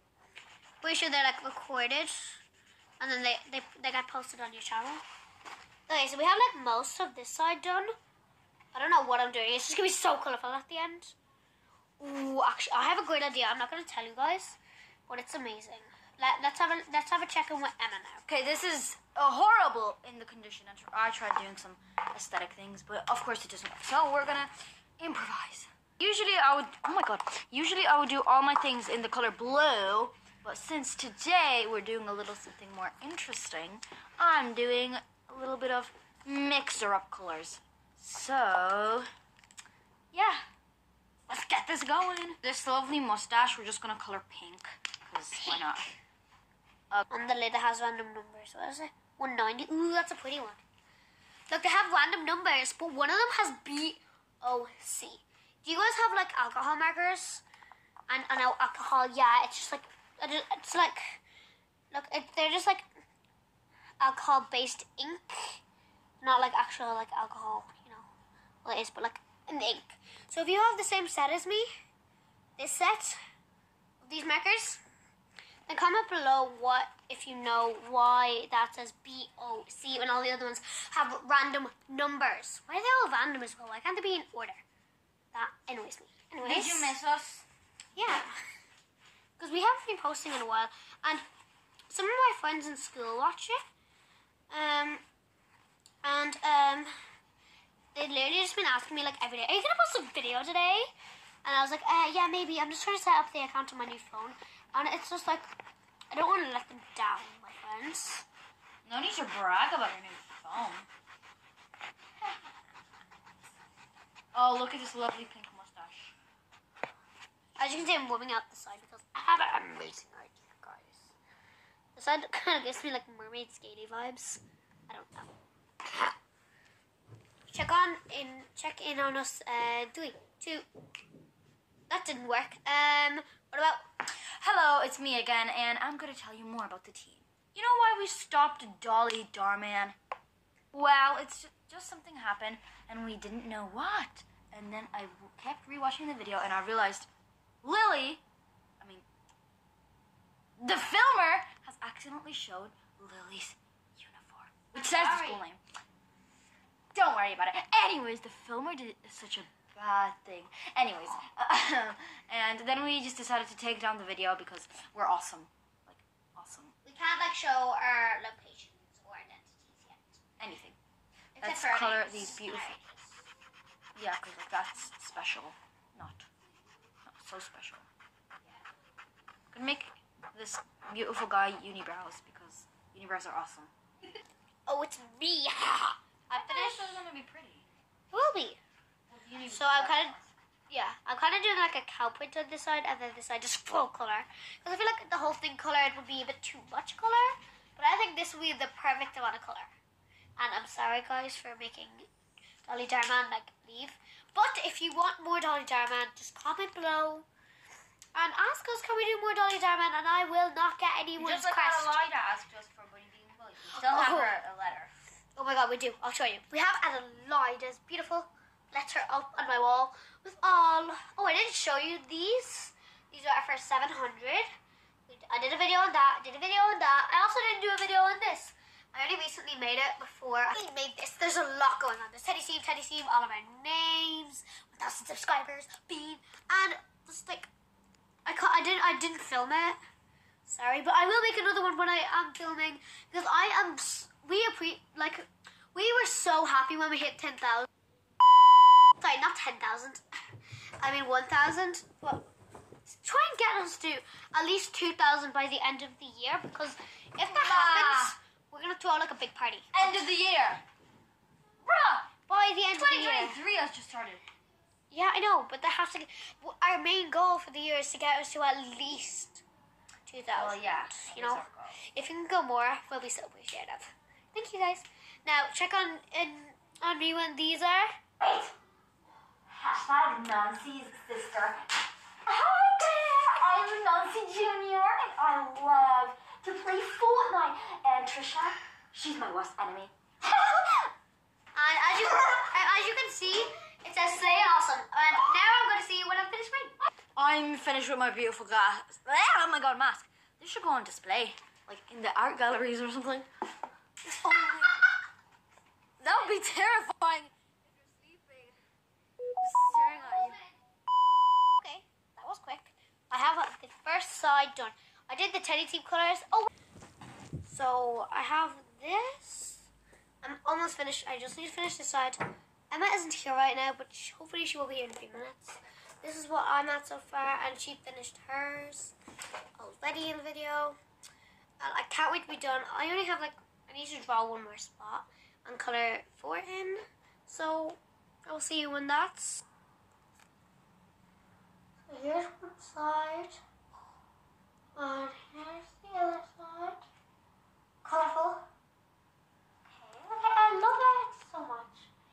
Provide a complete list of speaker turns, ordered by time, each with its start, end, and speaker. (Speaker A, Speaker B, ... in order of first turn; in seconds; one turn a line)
Speaker A: 0.8-2.4
Speaker A: 3.0-5.0
Speaker A: 5.9-7.9
Speaker A: 8.7-11.2
Speaker A: 12.0-18.2
Speaker B: 18.3-39.0
Speaker B: 40.1-40.4
Speaker B: 41.3-46.0
Speaker A: 47.1-50.6
Speaker A: 51.5-57.4
Speaker A: 58.1-61.2
Speaker A: 61.9-62.9
Speaker A: 64.0-65.6
Speaker A: 66.2-68.1
Speaker A: 68.6-71.7
Speaker A: 72.6-73.2
Speaker A: 74.0-74.8
Speaker A: 75.7-84.6
Speaker A: 85.3-87.0
Speaker B: 86.4-87.5
Speaker A: 87.9-88.4
Speaker A: 89.4-91.2
Speaker A: 91.9-93.6
Speaker A: 94.5-95.0
Speaker A: 96.0-96.9
Speaker A: 97.9-100.9
Speaker A: 101.4-105.5
Speaker A: 106.1-108.2
Speaker B: 108.8-110.9
Speaker B: 114.3-116.1
Speaker A: 117.6-121.1
Speaker A: 122.0-125.3
Speaker A: 127.5-130.7
Speaker A: 131.9-133.8
Speaker B: 134.4-139.9
Speaker B: 140.7-147.1
Speaker B: 147.6-148.2
Speaker B: 148.8-149.1
Speaker B: 150.6-155.6
Speaker A: 154.7-155.4
Speaker B: 156.9-166.7
Speaker A: 166.8-170.2
Speaker B: 170.4-170.8
Speaker A: 171.3-173.2
Speaker B: 171.4-172.8
Speaker B: 173.9-176.3
Speaker B: 177.1-177.8
Speaker B: 179.5-183.7
Speaker A: 184.7-187.0
Speaker B: 186.3-187.7
Speaker A: 188.1-188.6
Speaker B: 189.1-190.3
Speaker A: 189.5-190.2
Speaker A: 190.7-199.7
Speaker A: 200.4-202.1
Speaker A: 202.6-207.3
Speaker A: 208.1-212.0
Speaker B: 211.2-214.9
Speaker A: 213.7-214.3
Speaker A: 215.3-224.5
Speaker A: 225.1-237.5
Speaker A: 238.2-239.8
Speaker A: 240.4-247.7
Speaker A: 249.0-250.0
Speaker A: 250.8-252.3
Speaker A: 252.9-260.0
Speaker B: 257.2-258.1
Speaker B: 259.7-260.6
Speaker B: 261.6-262.1
Speaker A: 262.3-263.4
Speaker B: 262.7-264.2
Speaker A: 264.9-269.4
Speaker A: 270.1-278.0
Speaker B: 270.3-271.8
Speaker B: 278.2-278.5
Speaker B: 279.5-281.7
Speaker B: 282.2-290.8
Speaker A: 291.5-296.8
Speaker B: 297.1-303.3
Speaker B: 304.2-304.8
Speaker B: 306.0-308.6
Speaker B: 309.4-310.4
Speaker A: 311.6-316.5
Speaker A: 317.4-319.7
Speaker A: 320.2-328.9
Speaker A: 329.6-330.8
Speaker A: 331.6-339.4
Speaker A: 341.9-343.4
Speaker A: 344.7-346.8
Speaker A: 347.8-348.5
Speaker A: 349.6-351.9